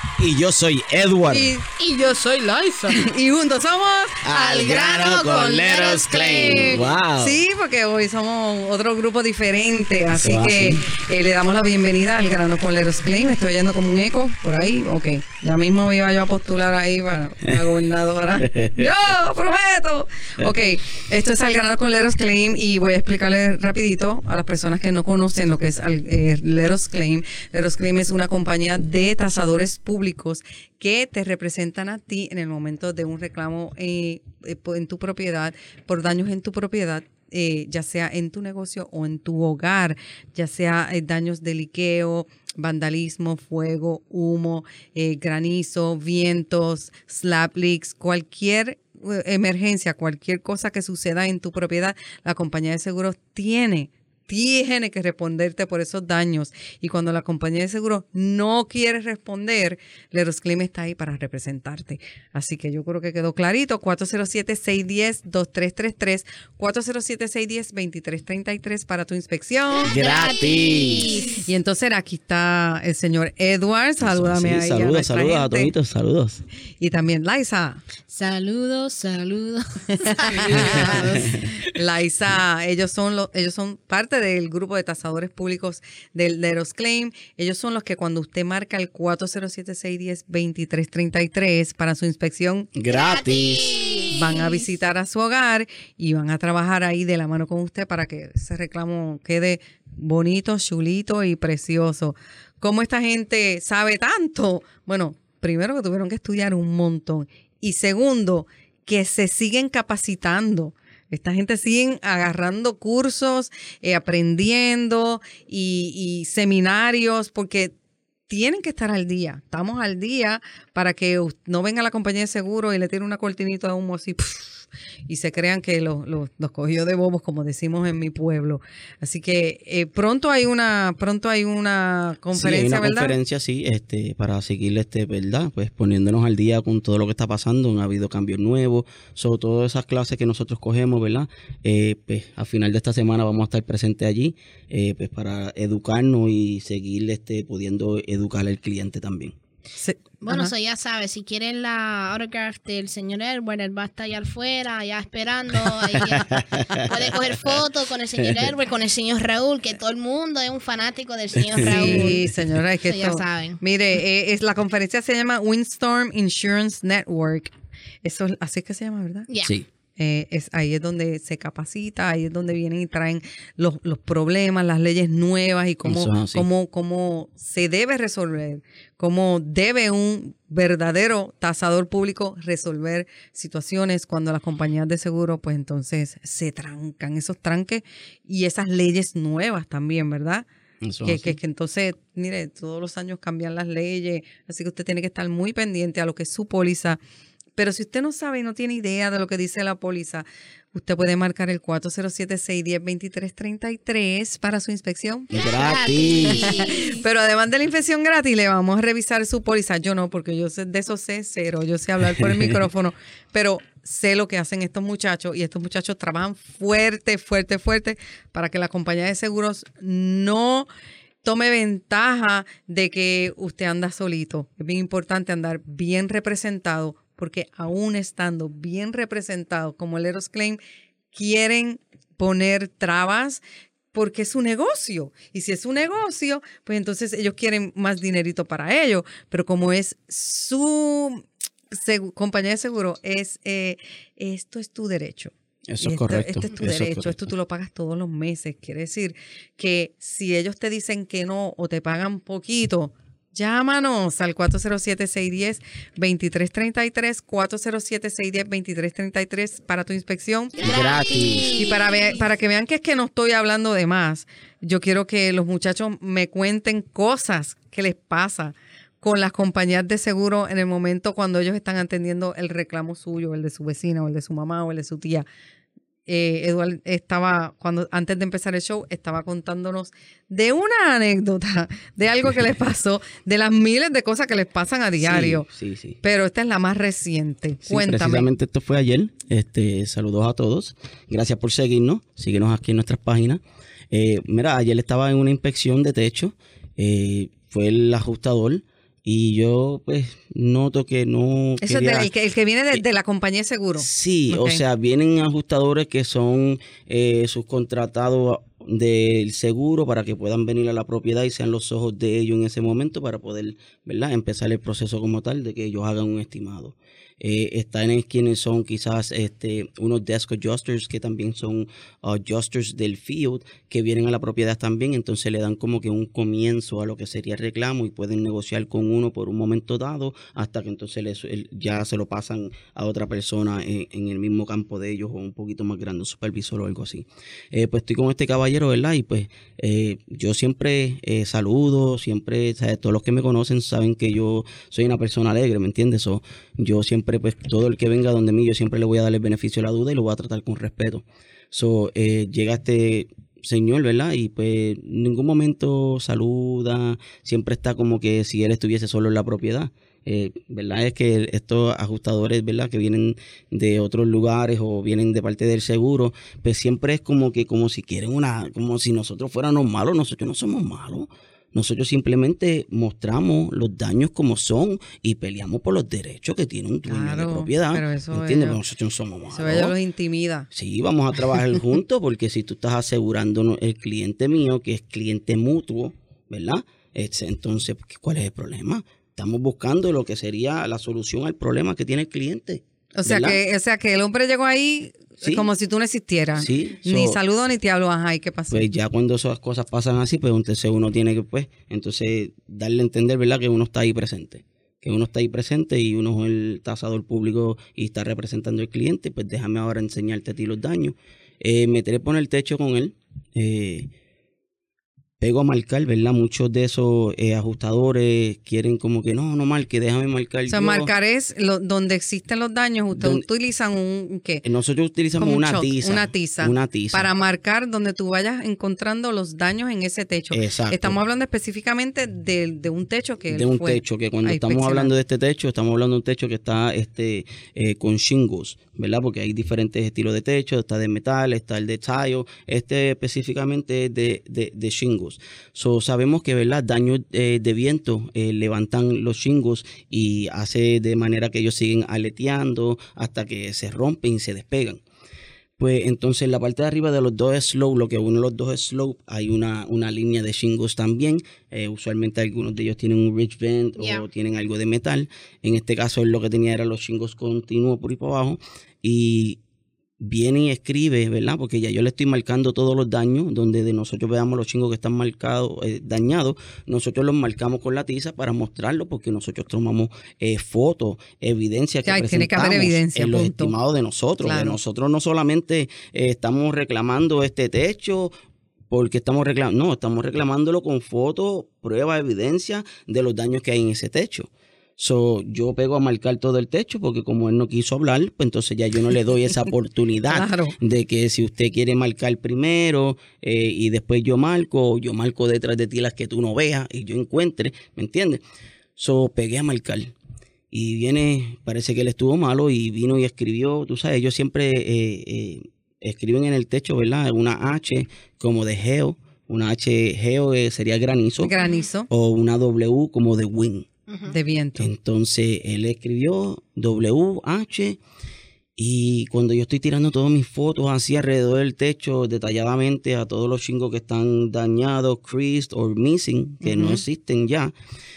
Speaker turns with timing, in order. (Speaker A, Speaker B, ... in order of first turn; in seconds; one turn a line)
Speaker A: 0.2-1.6
Speaker B: 1.3-1.6
Speaker C: 1.8-3.0
Speaker B: 2.9-4.2
Speaker A: 4.2-7.4
Speaker C: 4.3-6.9
Speaker B: 6.3-70.0
Speaker A: 10.2-10.8
Speaker A: 18.4-18.9
Speaker C: 69.8-71.5
Speaker A: 69.9-71.3
Speaker B: 71.3-75.7
Speaker A: 74.0-76.4
Speaker B: 76.8-77.8
Speaker C: 78.1-81.3
Speaker B: 80.0-92.7
Speaker A: 80.5-81.5
Speaker A: 92.8-93.9
Speaker C: 92.9-94.6
Speaker B: 94.1-117.7
Speaker B: 118.3-133.2
Speaker A: 132.3-149.4
Speaker B: 149.8-150.5
Speaker C: 150.2-162.2
Speaker A: 155.9-157.6
Speaker A: 158.2-158.5
Speaker A: 161.3-162.2
Speaker B: 161.7-167.5
Speaker C: 162.8-163.6
Speaker B: 168.0-169.3
Speaker C: 169.3-169.5
Speaker B: 170.0-190.5
Speaker A: 175.8-176.5
Speaker A: 190.8-191.4
Speaker B: 191.0-197.0
Speaker B: 197.6-205.3
Speaker A: 205.3-206.6
Speaker C: 205.3-207.0
Speaker B: 206.4-220.7
Speaker A: 212.2-212.6
Speaker B: 221.2-230.6
Speaker B: 231.1-233.4
Speaker B: 233.9-260.7
Speaker A: 245.7-247.3
Speaker A: 260.6-261.6
Speaker C: 260.6-262.0
Speaker B: 261.6-275.3
Speaker B: 276.1-285.5
Speaker A: 285.0-286.0
Speaker B: 286.0-288.3
Speaker A: 287.7-302.1
Speaker B: 301.6-304.6
Speaker A: 303.8-379.8
Speaker B: 376.9-378.6
Speaker B: 379.3-380.5
Speaker A: 380.5-393.4
Speaker B: 393.0-398.6
Speaker A: 395.2-395.5
Speaker A: 396.4-397.2
Speaker A: 398.5-413.9
Speaker A: 415.2-420.9
Speaker B: 420.5-424.4
Speaker A: 422.9-423.2
Speaker A: 424.4-427.1
Speaker B: 425.2-434.9
Speaker A: 430.3-431.0
Speaker A: 433.3-454.8
Speaker A: 455.6-469.4
Speaker C: 463.8-464.1
Speaker A: 470.0-488.1
Speaker B: 481.9-483.6
Speaker B: 484.2-484.6
Speaker A: 488.7-508.2
Speaker B: 500.1-500.6
Speaker A: 508.8-509.9
Speaker A: 510.5-521.3
Speaker B: 521.2-521.9
Speaker C: 521.4-521.7
Speaker A: 521.9-523.7
Speaker C: 523.9-524.1
Speaker B: 524.1-524.7
Speaker A: 524.6-527.8
Speaker A: 528.6-537.5
Speaker B: 536.4-536.8